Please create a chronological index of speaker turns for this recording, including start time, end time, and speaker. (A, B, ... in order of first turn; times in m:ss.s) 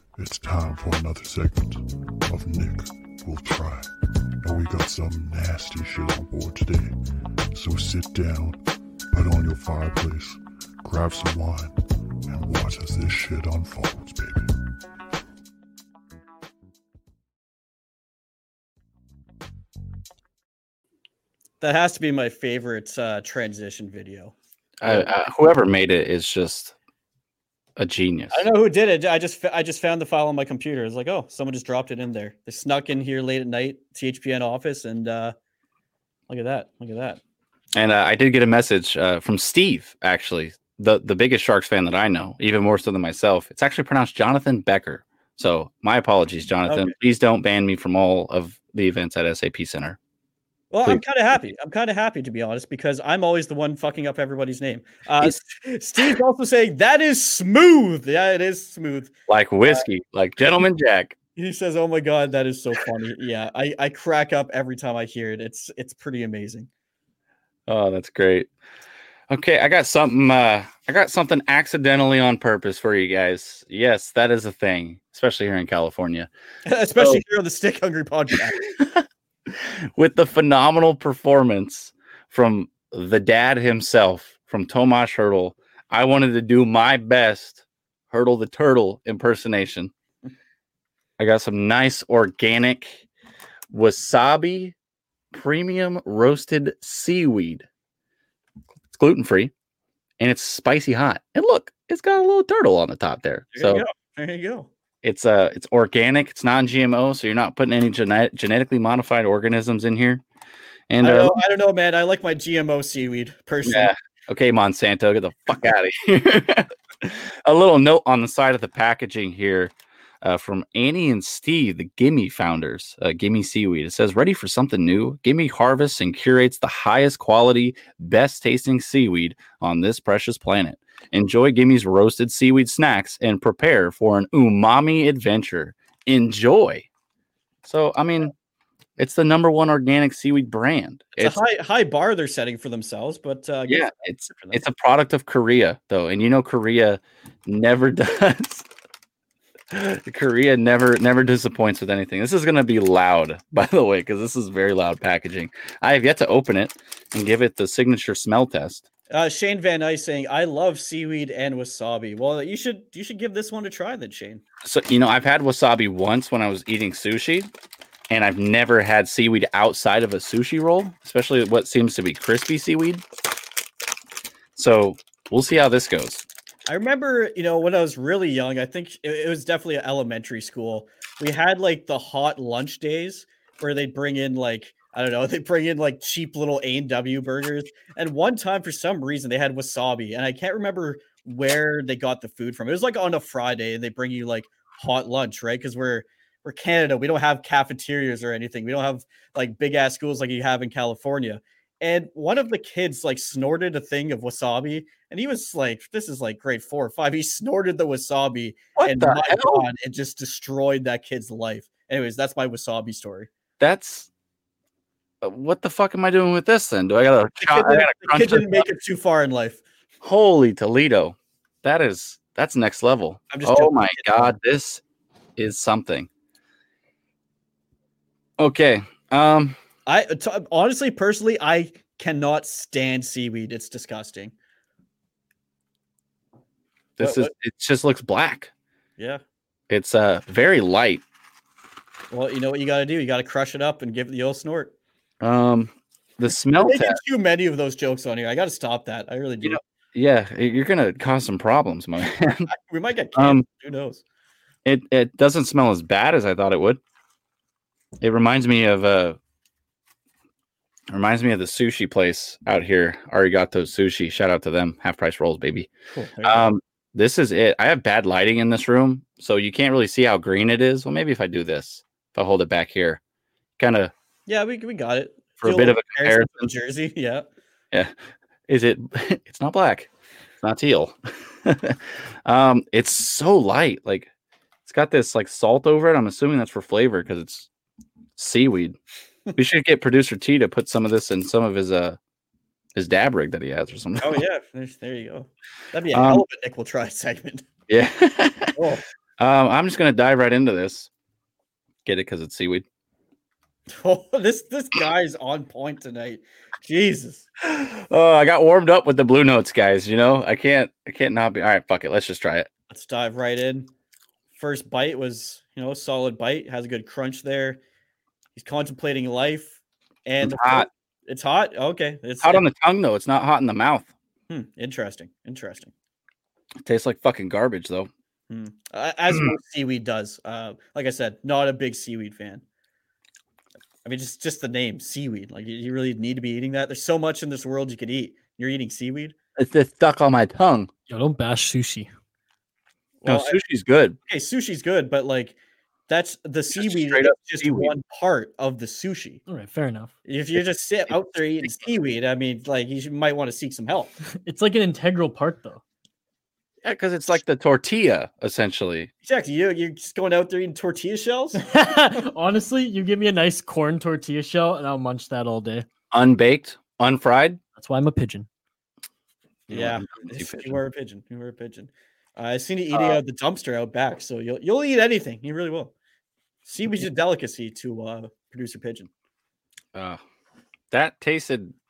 0:00.2-0:07.0 A
0:07.5-0:14.7 A
0:21.6-0:25.1 B
0:24.8-0:26.7 C
0:27.8-0:28.5 C
0:28.3-0:35.4 B
0:36.3-0:37.2 B
0:37.8-0:50.0 C
0:46.7-0:46.9 B
0:50.7-0:59.1 B
0:59.3-1:01.2 C
1:01.4-1:06.7 B
1:07.7-1:08.5 C
1:09.3-1:16.3 C
1:16.7-1:18.6 B
1:17.0-1:17.2 C
1:18.6-1:29.9 C
1:31.2-1:33.0 C
1:33.7-1:34.8 C
1:35.3-1:37.7 C
1:38.9-1:39.5 C
1:40.2-1:43.8 C
1:43.6-1:44.7 B
1:45.0-1:50.2 C
1:50.9-1:51.4 C
1:51.0-1:53.9 B
1:53.6-2:16.9 C
2:17.6-2:18.3 C
2:19.0-2:21.4 C
2:21.2-2:24.6 B
2:23.7-2:28.7 C
2:29.7-2:38.9 C
2:39.1-2:44.4 B
2:44.6-2:47.5 C
2:48.1-2:53.0 C
2:54.6-2:56.2 C
2:56.7-3:33.3 B
3:28.8-3:29.7 C
3:33.6-3:34.1 C
3:35.2-3:38.7 C
3:37.4-3:39.6 B
3:40.0-3:44.8 C
3:43.3-3:44.3 B
3:45.4-3:46.1 C
3:48.4-3:49.6 C
3:49.9-3:54.3 B
3:57.0-3:58.5 C
3:57.0-3:57.3 B
3:59.7-4:01.0 C
4:02.1-4:04.7 B
4:05.2-4:07.0 C
4:06.6-4:09.6 B
4:09.4-4:12.5 C
4:12.5-4:14.0 B
4:13.2-4:13.4 C
4:14.6-4:16.8 C
4:18.0-4:19.2 C
4:20.9-4:25.7 C
4:25.9-4:26.5 B
4:26.2-4:33.0 C
4:33.6-4:33.9 C
4:34.3-4:37.3 B
4:35.4-4:36.5 C
4:38.5-4:39.9 C
4:40.4-4:44.1 C
4:44.7-4:47.5 C
4:48.2-4:48.8 C
4:49.4-4:52.0 C
4:52.8-4:54.2 C
4:54.0-4:57.4 B
4:55.9-4:56.2 C
4:57.7-4:58.6 C
4:58.6-4:58.8 B
4:59.2-5:00.9 C
5:01.8-5:02.6 C
5:03.7-5:07.2 B
5:07.4-5:12.5 C
5:12.7-5:13.7 B
5:14.3-5:17.6 B
5:18.4-5:22.4 B
5:20.2-5:20.7 C
5:22.2-5:23.9 C
5:24.3-5:25.7 B
5:26.6-5:27.9 C
5:28.3-5:32.4 B
5:33.8-5:39.2 B
5:39.4-5:40.7 C
5:40.9-5:41.9 D
5:43.0-5:43.4 B
5:43.1-5:44.0 C
5:44.1-5:45.4 B
5:45.9-5:49.2 B
5:46.6-5:47.7 C
5:49.3-5:49.9 D
5:50.1-5:53.9 B
5:54.2-5:55.6 D
5:56.6-5:58.9 C
5:59.0-6:01.4 B
6:01.4-6:05.7 D
6:05.9-6:07.4 C
6:07.6-6:08.3 D
6:09.5-6:10.6 C
6:09.5-6:15.7 B
6:12.7-6:13.0 C
6:16.5-6:18.9 B
6:19.7-6:20.0 C
6:20.7-6:21.6 C